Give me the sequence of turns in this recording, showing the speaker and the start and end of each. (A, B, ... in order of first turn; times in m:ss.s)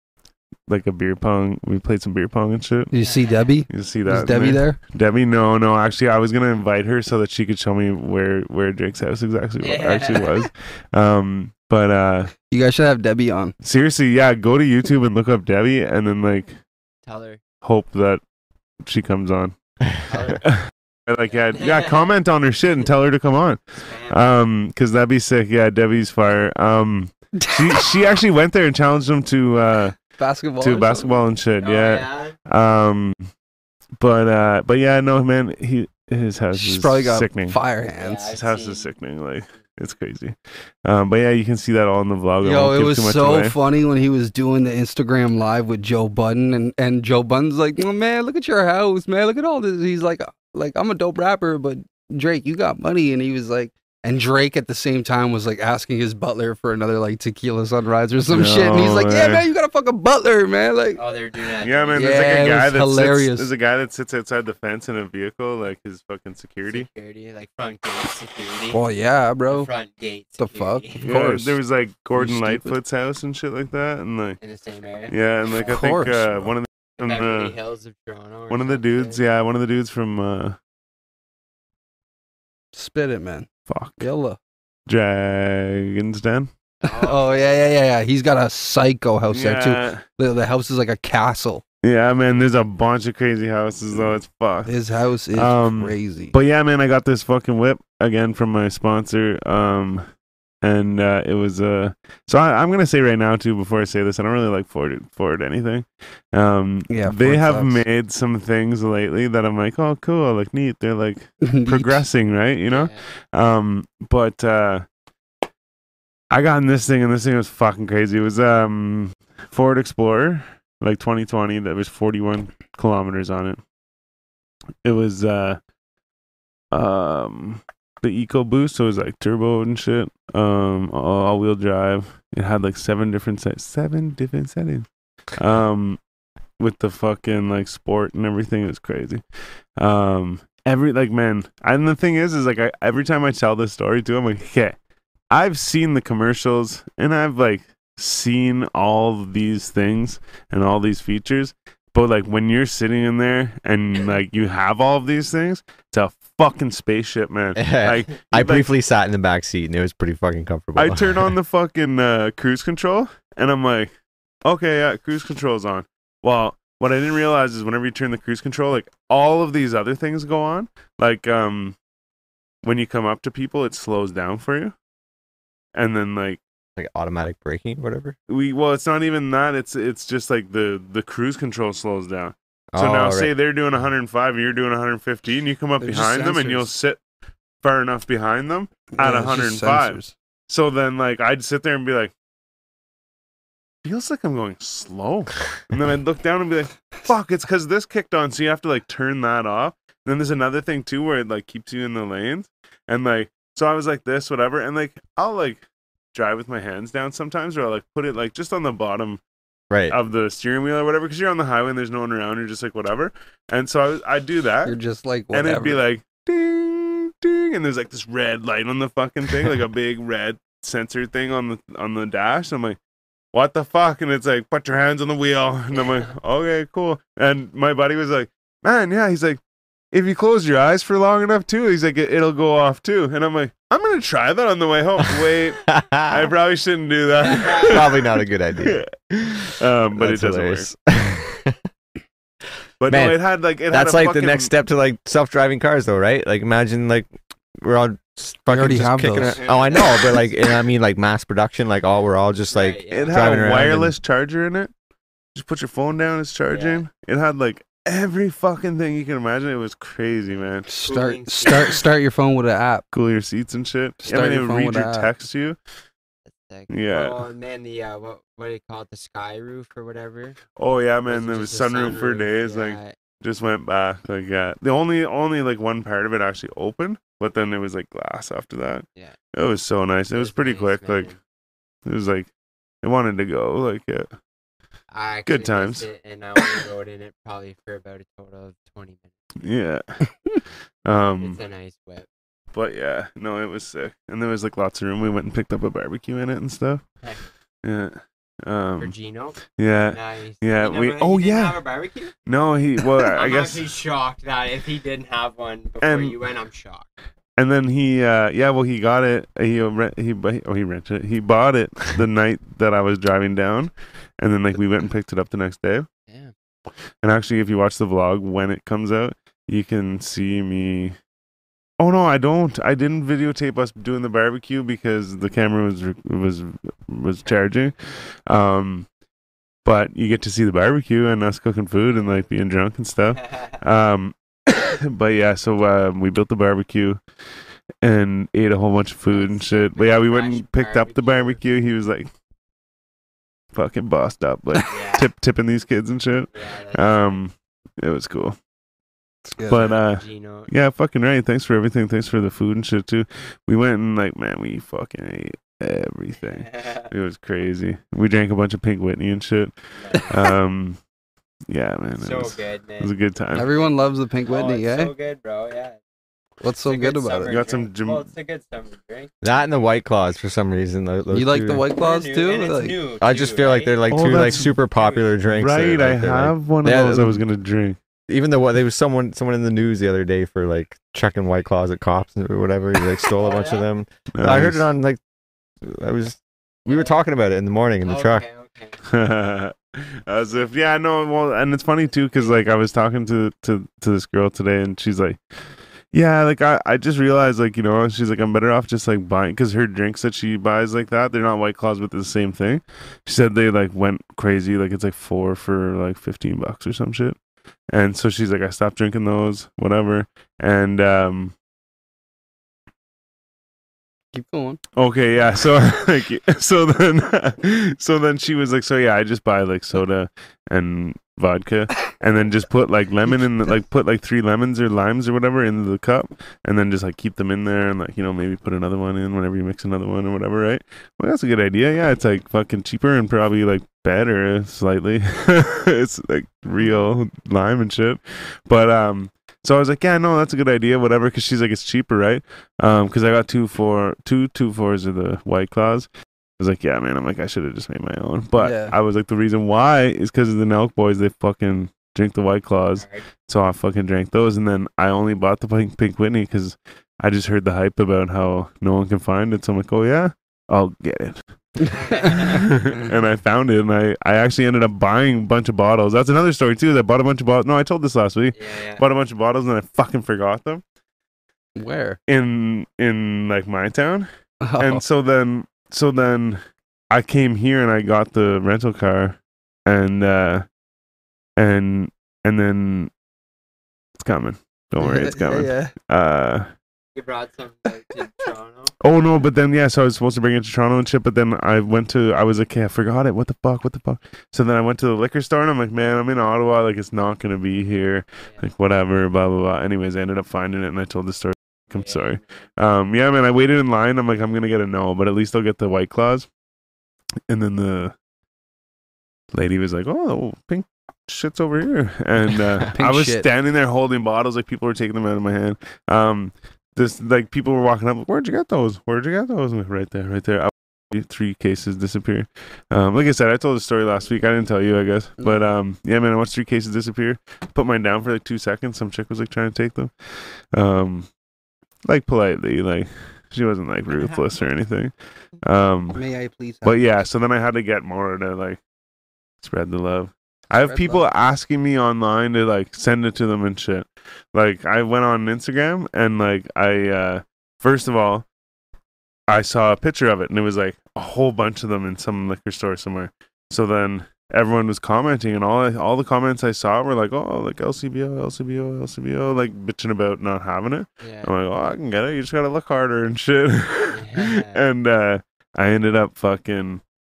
0:00.7-0:02.9 A
0:02.9-0:04.8 B
0:02.9-0:03.6 C
0:03.7-0:12.3 A
0:09.6-0:10.4 C
0:12.5-0:13.5 B
0:13.6-0:16.6 A
0:17.0-0:17.4 C
0:17.6-0:18.2 A
0:18.8-0:19.5 A
0:20.1-0:20.4 C
0:20.4-0:30.0 A
0:21.3-0:22.1 C
0:23.7-0:24.2 C
0:30.2-0:31.2 B
0:30.6-0:33.3 A
0:31.6-0:32.4 C
0:34.0-0:37.6 A
0:36.5-0:38.3 B
0:38.0-0:38.9 C
0:38.3-0:43.6 A
0:42.4-1:01.0 B
0:58.3-0:59.4 A
1:01.0-1:02.2 C
1:01.6-1:06.9 A
1:01.9-1:03.5 B
1:06.6-1:08.8 C
1:08.7-1:09.7 B
1:09.5-1:11.0 C
1:10.4-1:11.6 B
1:11.0-1:14.4 A
1:12.2-1:12.8 B
1:14.4-1:15.8 C
1:15.1-1:17.5 A
1:15.6-1:16.5 B
1:17.0-1:19.2 C
1:18.5-1:20.6 A
1:22.7-1:23.5 B
1:23.7-1:24.1 A
1:24.0-1:24.4 B
1:24.9-1:26.5 A
1:26.8-1:27.8 C
1:26.8-1:31.6 B
1:29.3-1:30.0 A
1:31.8-1:34.7 A
1:34.6-1:36.3 B
1:35.3-1:40.0 A
1:40.6-1:54.8 A
1:46.9-1:47.8 B
1:51.4-1:52.0 B
1:52.7-1:53.0 C
1:56.3-2:03.6 A
2:04.8-2:05.6 A
2:06.7-2:16.0 A
2:16.6-2:19.2 A
2:19.8-2:24.8 A
2:25.3-2:38.7 A
2:37.6-2:41.3 D
2:40.8-2:43.9 A
2:44.4-2:51.8 A
2:52.6-2:54.7 A
2:55.7-2:56.4 A
2:56.8-2:58.2 D
2:58.3-3:07.0 A
3:02.7-3:03.3 D
3:05.8-3:06.7 B
3:07.6-3:12.1 A
3:08.9-3:10.1 B
3:13.8-3:25.6 A
3:26.1-3:29.2 A
3:29.7-3:30.0 D
3:29.9-3:34.8 A
3:34.6-3:35.8 B
3:35.3-3:42.8 A
3:43.3-3:49.4 A
3:49.9-3:58.1 A
3:55.7-3:56.2 D
3:57.5-4:01.6 D
3:58.6-4:00.7 A
4:02.8-4:04.5 A
4:02.9-4:13.9 D
4:08.5-4:09.4 B
4:09.2-4:10.3 C
4:12.5-4:13.6 C
4:12.9-4:14.7 A
4:15.3-4:20.7 A
4:16.5-4:16.8 C
4:20.7-4:22.8 B
4:20.8-4:21.9 C
4:22.9-4:25.6 A
4:24.0-4:25.1 B
4:26.2-4:30.4 C
4:26.7-4:27.2 A
4:30.6-4:41.1 A
4:31.1-4:32.9 C
4:40.1-4:41.2 C
4:41.8-4:42.3 A
4:42.8-4:44.1 A
4:44.9-4:49.1 C
4:45.2-4:45.8 A
4:49.4-4:49.8 A
4:50.8-4:51.4 A
4:51.2-4:52.1 C
4:52.5-4:56.8 A
4:57.0-4:57.3 C
4:57.6-4:58.9 A
4:58.8-5:02.1 C
4:59.5-5:01.6 A
5:02.3-5:03.6 A
5:03.0-5:06.9 C
5:05.8-5:06.2 A
5:07.4-5:15.9 A
5:16.1-5:16.3 C
5:17.0-5:21.0 A
5:21.8-5:28.9 A
5:29.6-5:37.0 A
5:31.9-5:32.3 C
5:33.2-5:33.6 C
5:37.8-5:42.1 A
5:39.1-5:41.4 C
5:43.5-5:48.4 A
5:44.7-5:45.1 C
5:46.3-5:47.2 C
5:49.3-5:49.7 B
5:49.5-5:59.5 A
5:49.7-5:50.5 C
5:56.2-5:56.9 C
5:59.7-6:00.2 C
6:00.0-6:00.8 A
6:01.5-6:03.5 A
6:02.0-6:05.8 C
6:03.3-6:04.9 B
6:06.4-6:07.3 B
6:06.6-6:09.1 C
6:07.3-6:08.1 A
6:09.2-6:11.6 D
6:11.1-6:12.8 B
6:11.8-6:15.1 C
6:13.0-6:17.2 D
6:13.9-6:14.5 A
6:15.4-6:17.8 A
6:18.1-6:25.0 D
6:23.2-6:23.6 C
6:24.1-6:24.7 A
6:25.6-6:28.2 D
6:26.7-6:27.0 C
6:27.8-6:28.8 C
6:28.9-6:35.2 A
6:35.9-6:47.2 A
6:47.7-6:51.3 A
6:54.1-6:54.6 B
6:54.8-7:41.2 A
7:28.4-7:28.7 B
7:32.8-7:33.0 C
7:41.6-7:42.8 B
7:41.7-7:42.5 C
7:42.1-7:50.6 A
7:48.3-7:48.8 C
7:51.6-7:52.0 B
7:52.1-8:00.4 A
7:54.4-7:54.8 B
8:01.4-8:02.9 A
8:04.0-8:06.5 A
8:04.8-8:05.7 B
8:06.9-8:08.7 C
8:08.8-8:26.3 A
8:21.7-8:22.4 C
8:27.3-8:27.9 A
8:29.3-8:49.9 A
8:32.7-8:33.3 B
8:50.5-8:51.1 A
8:51.8-8:56.0 A
8:55.9-8:56.9 B
8:56.6-8:58.6 A
8:59.4-9:08.2 A
9:00.6-9:01.0 B
9:09.3-9:26.8 A
9:21.0-9:21.3 C
9:23.9-9:24.6 C